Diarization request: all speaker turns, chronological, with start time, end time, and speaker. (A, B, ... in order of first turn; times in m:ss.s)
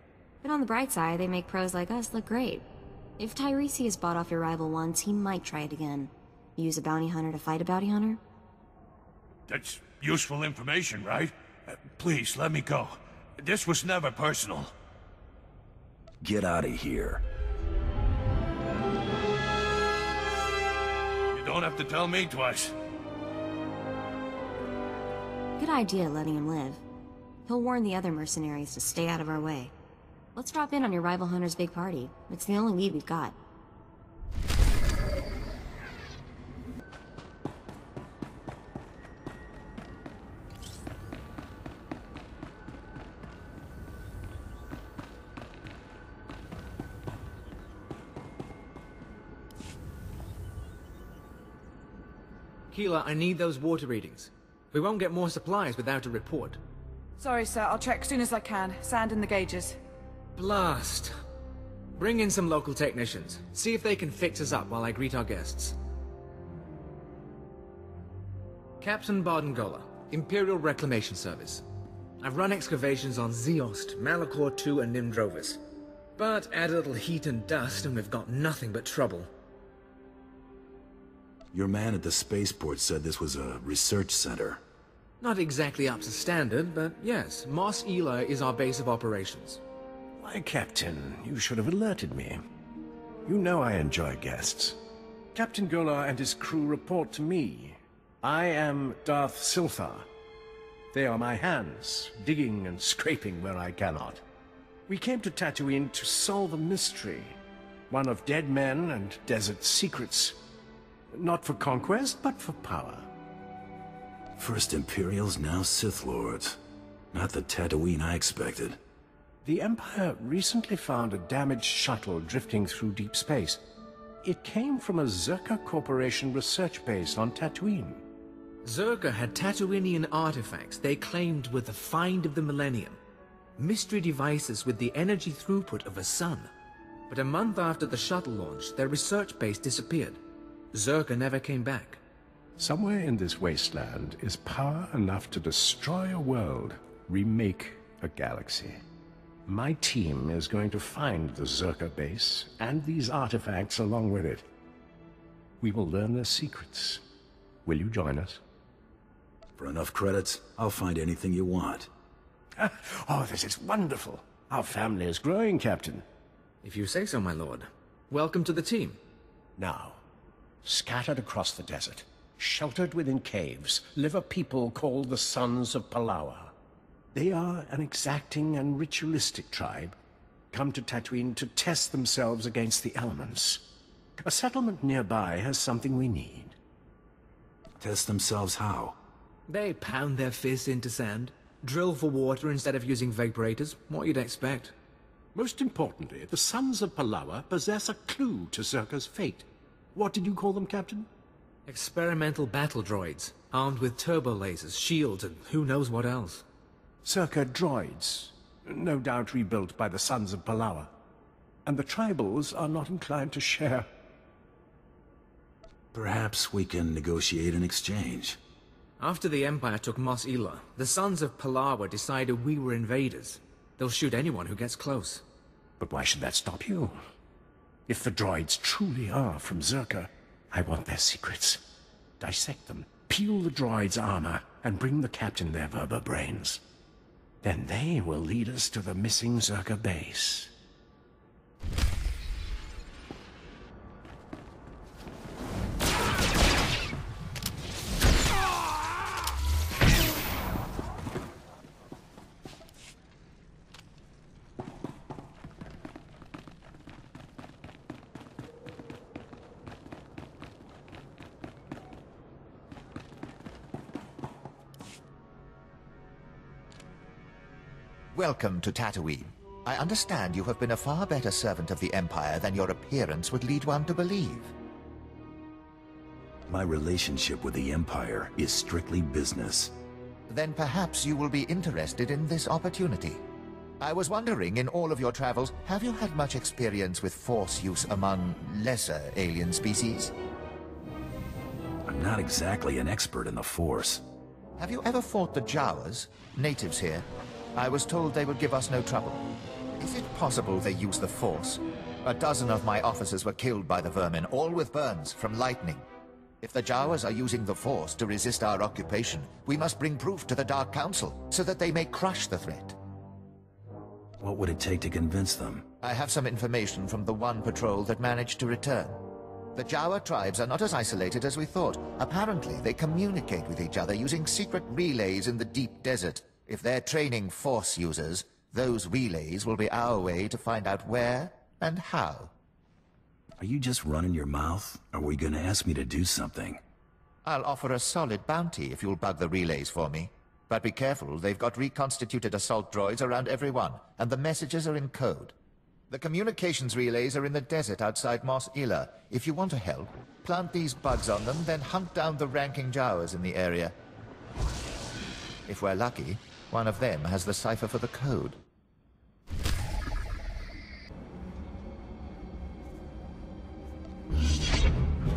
0:00.4-0:02.6 A
0:03.2-0:08.2 A
0:09.5-0:14.7 B
0:16.2-0:17.2 C
0:21.3-0:22.7 B
0:25.6-0:26.8 A
0:27.5-0:29.7 A
0:30.4-0:33.3 A
0:52.7-0:56.6 D
0:57.2-0:59.8 E
1:00.4-1:01.1 D
1:02.0-1:05.8 D
1:08.8-1:11.6 D
1:12.2-1:15.6 D
1:16.2-1:19.3 D
1:21.5-1:24.6 C
1:25.2-1:29.6 D
1:30.2-1:32.4 F
1:33.2-1:34.8 F
1:35.3-1:40.0 F
1:40.9-1:44.2 F
1:44.9-1:47.4 F
1:47.9-1:50.4 F
1:51.1-1:53.1 F
1:54.4-1:56.6 C
1:57.1-1:58.8 C
1:59.4-2:03.6 F
2:04.2-2:08.0 F
2:08.6-2:13.0 D
2:13.6-2:16.5 D
2:17.1-2:20.2 D
2:20.7-2:22.0 D
2:22.6-2:28.8 F
2:29.4-2:34.4 F
2:35.6-2:37.0 F
2:37.6-2:38.4 F
2:39.6-2:41.9 C
2:42.6-2:46.0 F
2:46.6-2:49.0 D
2:49.6-2:50.0 F
2:50.6-2:56.5 F
2:57.1-3:00.0 F
3:00.5-3:03.6 F
3:04.2-3:06.5 F
3:07.8-3:09.0 C
3:09.5-3:14.7 D
3:15.3-3:21.1 F
3:21.7-3:26.4 D
3:27.0-3:30.9 F
3:31.7-3:33.9 F
3:35.9-3:38.4 C
3:39.0-3:45.2 D
3:45.8-3:47.0 F
3:47.9-3:51.6 F
3:52.2-3:56.6 F
3:57.4-4:00.5 F
4:28.1-4:34.5 G
4:36.5-4:39.8 C
4:40.3-4:43.2 G
4:43.8-4:50.1 G
4:51.9-4:54.0 C
4:54.6-4:59.3 G
4:59.8-5:05.8 G
5:06.4-5:12.8 G
5:14.2-5:15.6 C
5:15.8-5:19.0 G
5:19.6-5:32.3 G
5:33.4-5:36.6 C
5:37.2-5:45.3 G
5:45.9-5:53.8 G
5:55.4-5:58.4 G